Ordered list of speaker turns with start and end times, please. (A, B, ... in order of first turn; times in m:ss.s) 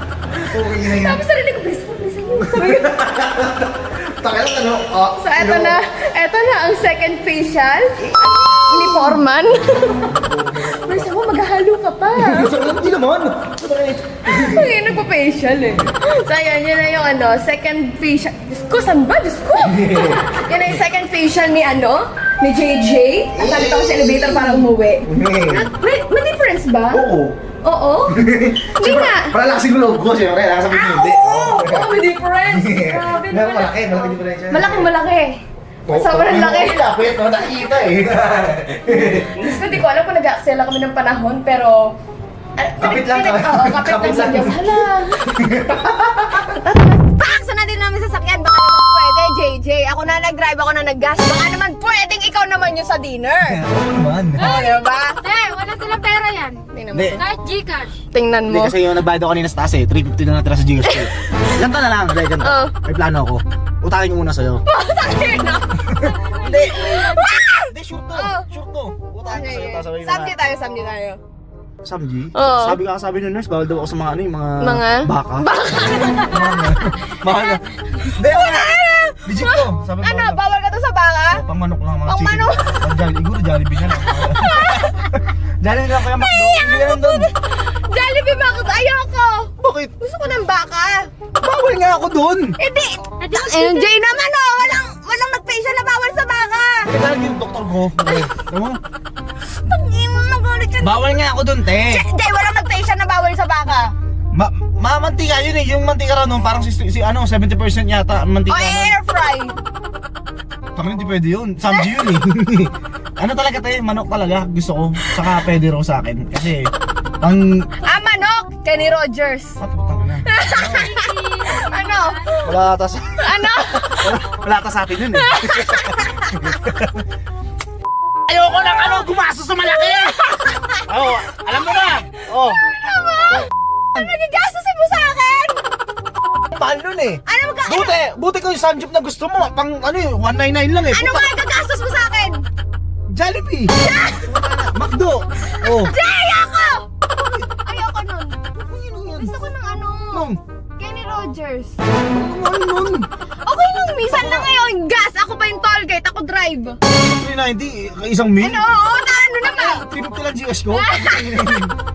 0:00.4-0:01.2 A
0:00.7-0:02.9 B
0:02.4-0:05.8 A
0:05.2-0:10.1 B
0:08.0-0:09.2 A
0:10.0-0:11.1 A
0:10.6-0:12.8 B
0:12.1-0:14.8 A
0:14.2-0:27.0 B
0:19.6-0:20.3 A
0:23.3-0:25.7 A
0:26.9-0:27.4 A
0:27.6-0:28.2 B
0:28.1-0:34.9 A
0:28.7-0:29.3 B
0:30.7-0:36.9 B
0:35.9-0:39.8 A
0:38.9-0:41.9 B
0:42.6-0:45.2 B
0:42.8-0:46.5 A
0:46.1-0:53.6 B
0:53.4-0:54.5 A
0:54.4-0:55.2 B
0:54.4-0:56.6 C
0:56.7-0:57.2 B
0:56.9-0:57.2 A
0:57.2-0:58.0 C
0:58.1-0:58.8 B
0:58.5-1:04.6 A
1:00.8-1:01.5 B
1:02.4-1:02.7 B
1:04.7-1:08.4 B
1:06.0-1:07.0 C
1:06.4-1:07.1 A
1:07.7-1:10.4 A
1:09.2-1:11.2 B
1:11.8-1:20.4 A
1:12.3-1:12.8 B
1:14.6-1:21.4 B
1:21.3-1:27.3 A
1:22.1-1:22.8 B
1:23.9-1:25.1 B
1:26.0-1:31.1 B
1:29.6-1:29.9 A
1:31.4-1:32.5 A
1:32.6-1:36.9 B
1:33.2-1:34.0 C
1:36.8-1:38.8 A
1:38.0-1:38.3 B
1:39.6-1:43.9 B
1:40.8-1:42.0 A
1:44.3-1:48.9 A
1:48.5-1:49.6 B
1:50.8-1:57.7 A
1:51.7-1:52.0 B
1:57.8-1:59.6 B
1:59.6-2:00.9 A
2:00.2-2:02.5 B
2:00.5-2:02.4 C
2:02.4-2:07.0 A
2:03.2-2:04.2 B
2:05.1-2:06.5 B
2:08.3-2:10.2 A
2:08.6-2:09.1 B
2:09.7-2:15.6 B
2:10.9-2:12.6 A
2:16.5-2:21.3 A
2:17.2-2:18.0 B
2:20.9-2:22.4 B
2:23.1-2:25.9 A
2:23.8-2:24.3 B
2:25.4-2:26.9 B
2:27.1-2:27.5 A
2:27.6-2:28.4 B
2:28.5-2:29.3 A
2:29.2-2:31.8 B
2:30.1-2:30.4 A
2:32.1-2:33.1 A
2:33.4-2:36.8 B
2:34.1-2:34.5 A
2:37.1-2:38.7 A
2:38.4-2:39.8 B
2:39.4-2:41.7 A
2:40.7-2:41.6 B